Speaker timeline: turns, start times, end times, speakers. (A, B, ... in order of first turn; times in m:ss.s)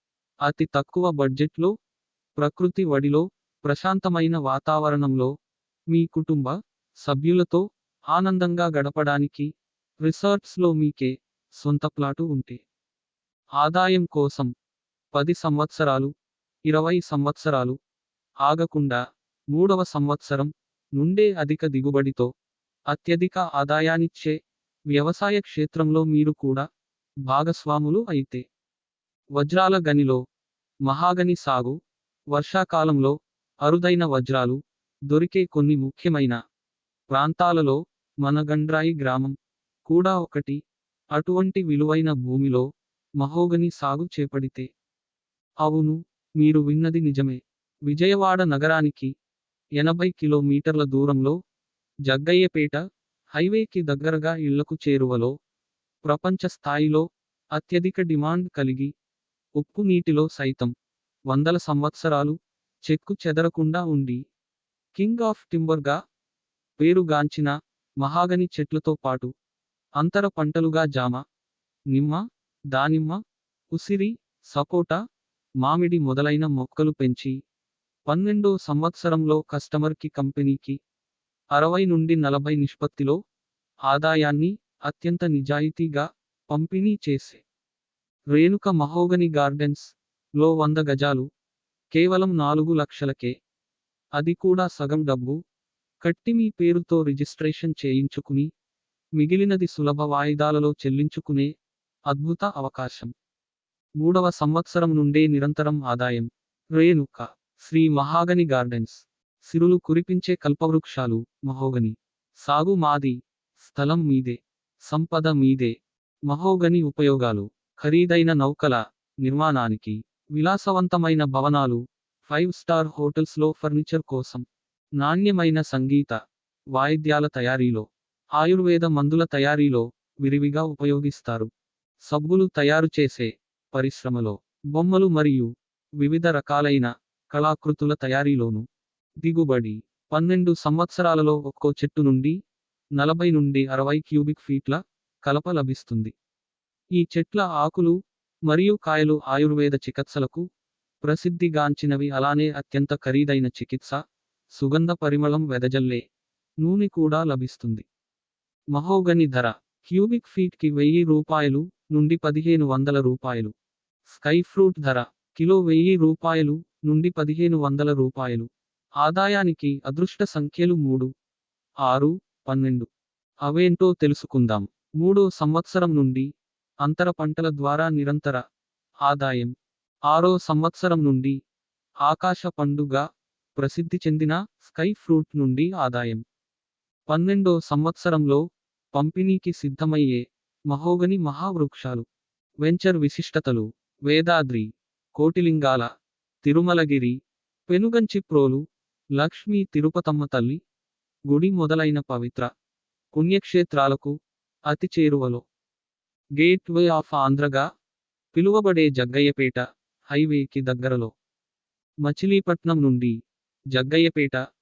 0:00.4-0:01.7 A
0:02.4-0:05.3 A
0:05.9-0:09.5 A
0:10.0-0:12.6 A
0:13.6-0:14.5 A
0:15.1-0:16.1 A
0:16.7-0:17.8 A
0:18.4-0:19.0 A
0:19.5-0:22.3 A
0:22.9-0:24.4 A
0:24.9-0:26.7 A
0:27.3-0:28.4 A
0:29.4-0:30.2 A
0:30.8-0:31.8 A
0:32.3-0:36.4 A
0:37.1-0:39.4 A
0:39.9-0:40.6 A
0:41.1-0:42.7 A
0:43.2-0:44.7 A
0:45.6-0:49.1 A
0:49.8-0:51.4 A
0:52.1-0:52.8 A
0:53.3-0:55.3 A
0:56.0-0:58.9 A
0:59.6-1:00.7 A
1:01.3-1:04.2 A
1:05.0-1:06.0 A
1:06.8-1:09.3 A
1:10.0-1:11.2 A
1:11.9-1:13.2 A
1:13.7-1:15.0 A
1:15.6-1:17.4 A
1:18.1-1:20.8 A
1:21.5-1:23.2 A
1:23.9-1:27.4 A
1:28.3-1:31.3 A
1:31.9-1:33.3 A
1:34.2-1:35.4 A
1:36.0-1:38.5 A
1:39.2-1:41.5 A
1:42.1-1:43.1 A
1:44.0-1:55.8 A
1:56.3-2:04.4 A
2:05.0-2:06.2 A
2:06.7-2:07.9 A
2:08.4-2:11.5 A
2:12.1-2:18.6 A
2:19.2-2:22.4 A
2:23.0-2:26.1 A
2:27.0-2:30.5 A
2:31.0-2:34.0 A
2:34.6-2:36.0 A
2:36.6-2:37.8 A
2:38.7-2:43.5 A
2:44.1-2:48.5 A
2:49.0-2:51.1 A
2:51.8-2:52.9 A
2:53.4-2:56.3 A
2:56.8-2:58.4 A
2:59.0-2:59.5 A
3:00.1-3:01.4 A
3:02.0-3:03.0 A
3:03.6-3:06.2 A
3:07.1-3:08.4 A
3:08.9-3:12.0 A
3:12.6-3:15.9 A
3:16.4-3:17.2 A
3:17.7-3:18.6 A
3:19.2-3:20.6 A
3:21.3-3:22.5 A
3:23.1-3:24.2 A
3:24.7-3:25.4 A
3:26.4-3:27.7 A
3:28.3-3:31.1 A
3:32.0-3:33.2 A
3:33.7-3:34.4 A